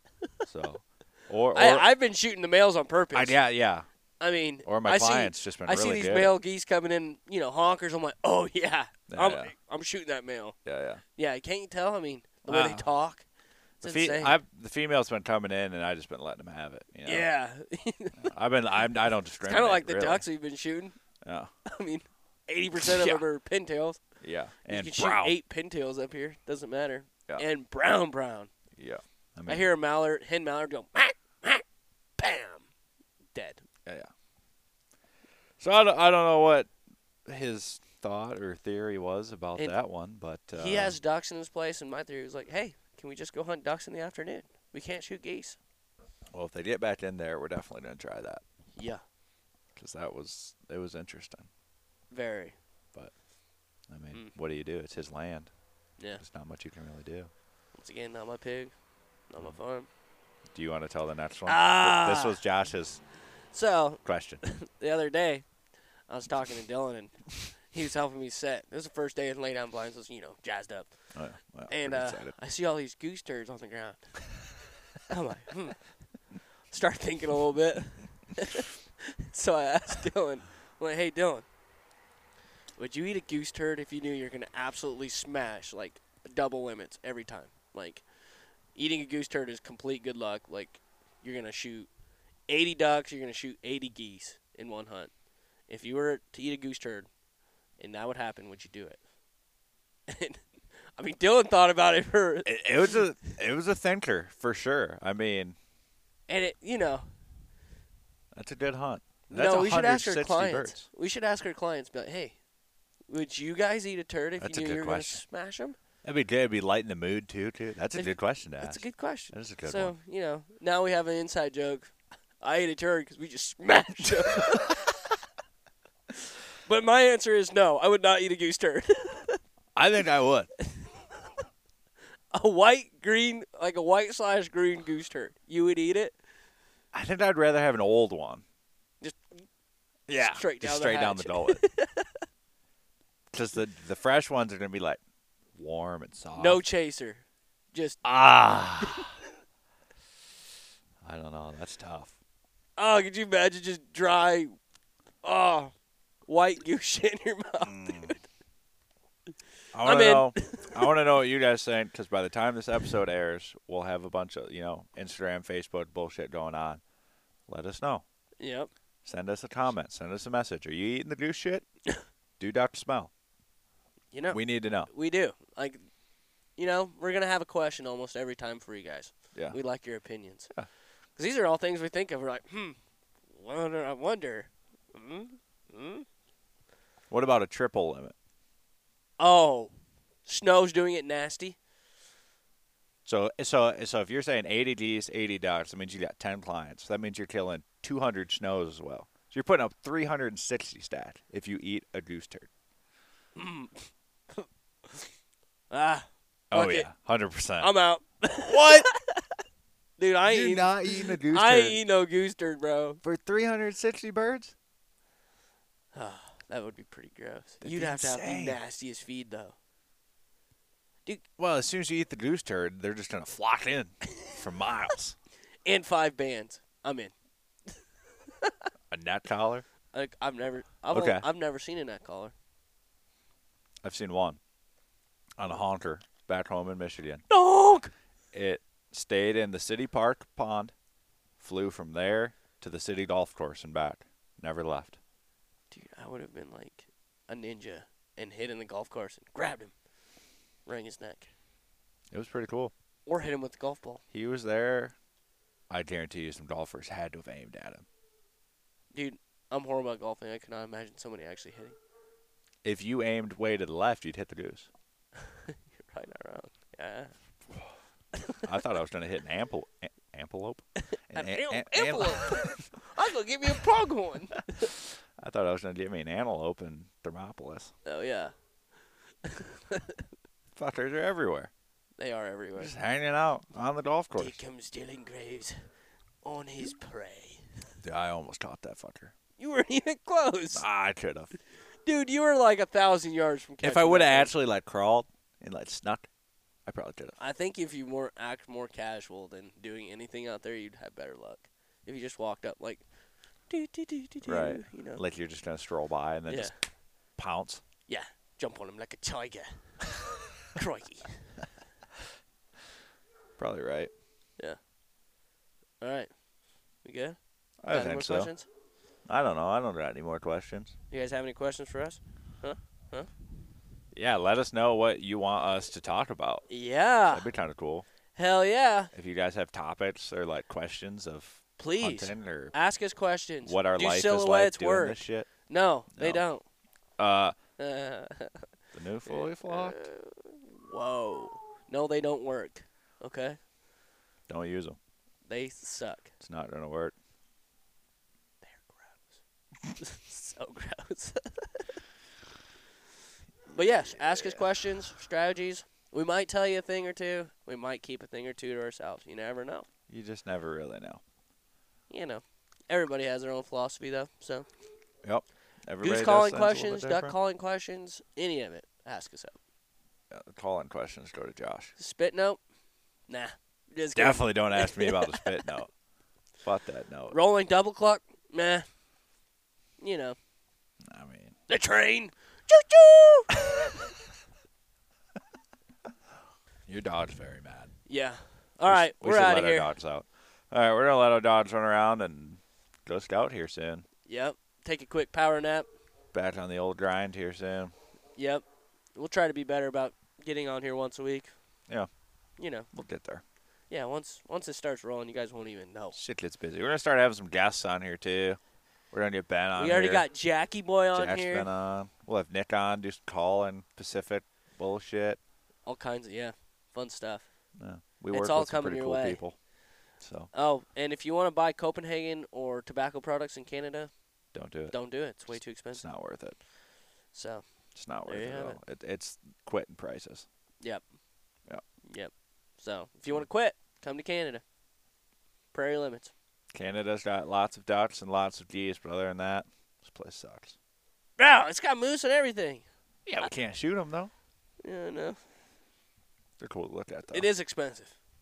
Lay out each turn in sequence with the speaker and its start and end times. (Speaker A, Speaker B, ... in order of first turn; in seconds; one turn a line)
Speaker A: 0.4-1.9
Speaker B: 1.5-3.4
Speaker A: 3.1-3.9
Speaker B: 4.2-10.6
Speaker A: 4.6-6.3
Speaker A: 9.1-9.5
Speaker A: 10.6-11.0
Speaker B: 11.2-13.2
Speaker A: 12.5-12.9
Speaker B: 13.8-14.4
Speaker A: 13.8-17.3
Speaker B: 17.0-18.3
Speaker A: 18.2-20.2
Speaker B: 19.4-20.9
Speaker A: 21.2-21.5
Speaker B: 21.6-24.0
Speaker A: 22.7-23.2
Speaker A: 24.2-25.4
Speaker B: 24.7-28.5
Speaker A: 28.8-29.7
Speaker B: 29.5-31.6
Speaker B: 32.2-32.6
Speaker B: 33.3-33.6
Speaker A: 35.6-36.7
Speaker A: 37.2-41.0
Speaker B: 40.5-45.6
Speaker A: 46.3-48.4
Speaker B: 48.8-49.0
Speaker A: 49.8-51.5
Speaker B: 52.1-52.5
Speaker A: 53.9-55.5
Speaker A: 56.2-57.3
Speaker B: 57.7-58.7
Speaker B: 59.3-59.9
Speaker A: 60.5-63.0
Speaker B: 61.5-62.4
Speaker B: 63.5-65.5
Speaker A: 64.0-64.4
Speaker B: 66.1-70.9
Speaker A: 71.1-72.3
Speaker B: 71.7-74.2
Speaker B: 75.1-75.9
Speaker B: 76.7-81.4
Speaker B: 82.8-88.0
Speaker B: 88.7-91.9
Speaker B: 92.5-95.1
Speaker B: 95.7-97.1
Speaker B: 97.8-99.0
Speaker B: 100.1-100.4
Speaker B: 101.0-103.0
Speaker A: 102.4-105.5
Speaker B: 106.3-107.1
Speaker A: 108.3-110.9
Speaker B: 109.3-112.3
Speaker B: 113.1-115.8
Speaker A: 114.4-115.2
Speaker A: 116.0-119.9
Speaker B: 117.9-124.8
Speaker B: 126.6-129.4
Speaker A: 129.8-130.5
Speaker B: 130.6-131.2
Speaker B: 132.3-136.2
Speaker A: 136.9-138.4
Speaker B: 139.0-139.4
Speaker A: 140.1-141.6
Speaker B: 140.1-142.2
Speaker A: 143.3-145.0
Speaker A: 145.5-146.6
Speaker B: 146.3-148.0
Speaker A: 148.0-149.2
Speaker A: 151.0-152.1
Speaker B: 152.8-154.5
Speaker B: 155.2-155.7
Speaker B: 156.2-158.2
Speaker A: 157.6-158.2
Speaker A: 159.7-166.8
Speaker B: 159.8-160.9
Speaker A: 167.5-168.0
Speaker B: 168.4-168.7
Speaker A: 169.0-171.7
Speaker A: 172.4-173.1
Speaker B: 174.1-175.8
Speaker A: 174.3-174.9
Speaker B: 176.6-180.5
Speaker B: 181.2-182.8
Speaker B: 183.3-186.1
Speaker A: 187.1-188.1
Speaker B: 189.2-189.7
Speaker B: 190.2-191.6
Speaker A: 193.1-202.5
Speaker B: 203.3-205.1
Speaker B: 205.7-206.9
Speaker A: 206.5-207.7
Speaker B: 207.6-209.3
Speaker A: 208.5-208.9
Speaker B: 210.0-213.0
Speaker A: 210.2-211.8
Speaker A: 213.0-214.5
Speaker B: 215.9-219.6
Speaker A: 217.6-218.6
Speaker A: 221.4-225.2
Speaker B: 225.6-227.1
Speaker B: 227.7-228.6
Speaker A: 228.9-229.6
Speaker B: 229.9-232.3
Speaker A: 230.9-231.2
Speaker A: 233.8-234.4
Speaker A: 235.4-237.2
Speaker B: 237.3-237.9
Speaker A: 238.3-240.7
Speaker A: 241.4-245.0
Speaker B: 245.7-249.7
Speaker B: 250.7-251.3
Speaker A: 252.1-252.7
Speaker B: 253.1-254.0
Speaker A: 254.1-254.9
Speaker A: 255.7-257.8
Speaker B: 258.9-261.8
Speaker A: 262.6-264.7
Speaker B: 265.1-267.1
Speaker B: 268.1-268.4
Speaker A: 268.4-272.6
Speaker B: 271.1-274.7
Speaker A: 274.6-277.7
Speaker B: 277.8-278.3
Speaker B: 279.2-280.1
Speaker A: 280.6-281.5
Speaker B: 282.0-282.7
Speaker A: 282.6-284.4
Speaker B: 284.1-285.6
Speaker B: 286.2-287.6
Speaker A: 287.8-289.1
Speaker B: 289.4-290.6
Speaker A: 290.5-291.3
Speaker B: 291.8-294.3
Speaker A: 293.6-296.1
Speaker A: 296.6-297.1
Speaker B: 297.2-302.8
Speaker B: 303.5-305.0
Speaker A: 304.2-306.5
Speaker B: 306.3-306.5
Speaker A: 307.2-307.6
Speaker B: 307.9-309.8
Speaker B: 310.4-311.2
Speaker A: 313.4-313.9
Speaker B: 315.8-316.1
Speaker B: 316.8-317.2
Speaker A: 317.6-318.3
Speaker B: 317.7-318.5
Speaker A: 319.1-320.7
Speaker B: 320.9-323.1
Speaker A: 323.9-326.4
Speaker B: 326.5-327.3
Speaker A: 327.1-327.9
Speaker B: 328.1-328.9
Speaker A: 328.9-332.5
Speaker B: 331.6-336.4
Speaker A: 333.4-335.3
Speaker A: 335.9-336.2
Speaker A: 337.0-337.4
Speaker B: 337.6-338.5
Speaker A: 338.7-339.8
Speaker B: 339.1-343.4
Speaker A: 344.3-344.8
Speaker B: 345.2-346.1
Speaker A: 346.2-346.9
Speaker B: 348.4-349.1
Speaker B: 349.8-351.8
Speaker B: 353.5-359.7
Speaker A: 354.0-354.4
Speaker A: 359.9-361.0
Speaker B: 361.9-364.5
Speaker A: 365.0-367.1
Speaker B: 365.8-369.3
Speaker A: 370.1-371.7
Speaker B: 371.8-372.4
Speaker B: 373.1-375.5
Speaker A: 373.9-375.7
Speaker A: 376.4-377.2
Speaker B: 377.1-378.6
Speaker B: 379.8-380.2
Speaker A: 380.9-381.4
Speaker B: 381.5-383.3
Speaker A: 386.7-387.7
Speaker B: 387.9-389.7
Speaker A: 388.7-393.9
Speaker B: 394.0-395.7
Speaker A: 396.1-397.7
Speaker B: 398.1-401.3
Speaker B: 402.4-402.7
Speaker A: 402.7-403.2
Speaker B: 403.7-405.9
Speaker A: 405.9-408.4
Speaker A: 408.9-410.1
Speaker B: 409.6-411.5
Speaker A: 410.9-415.2
Speaker B: 415.6-417.3
Speaker A: 417.6-419.4
Speaker B: 418.1-419.2
Speaker A: 420.0-420.3
Speaker B: 420.3-423.9
Speaker A: 424.3-424.8
Speaker B: 424.7-425.8
Speaker A: 425.3-426.4
Speaker B: 427.1-427.4
Speaker A: 427.7-430.2
Speaker B: 428.1-428.6
Speaker B: 431.8-434.4
Speaker B: 435.5-436.1
Speaker A: 436.5-440.6
Speaker B: 441.2-442.6
Speaker A: 443.1-444.1
Speaker B: 444.6-445.2
Speaker A: 446.4-447.3
Speaker B: 447.1-447.9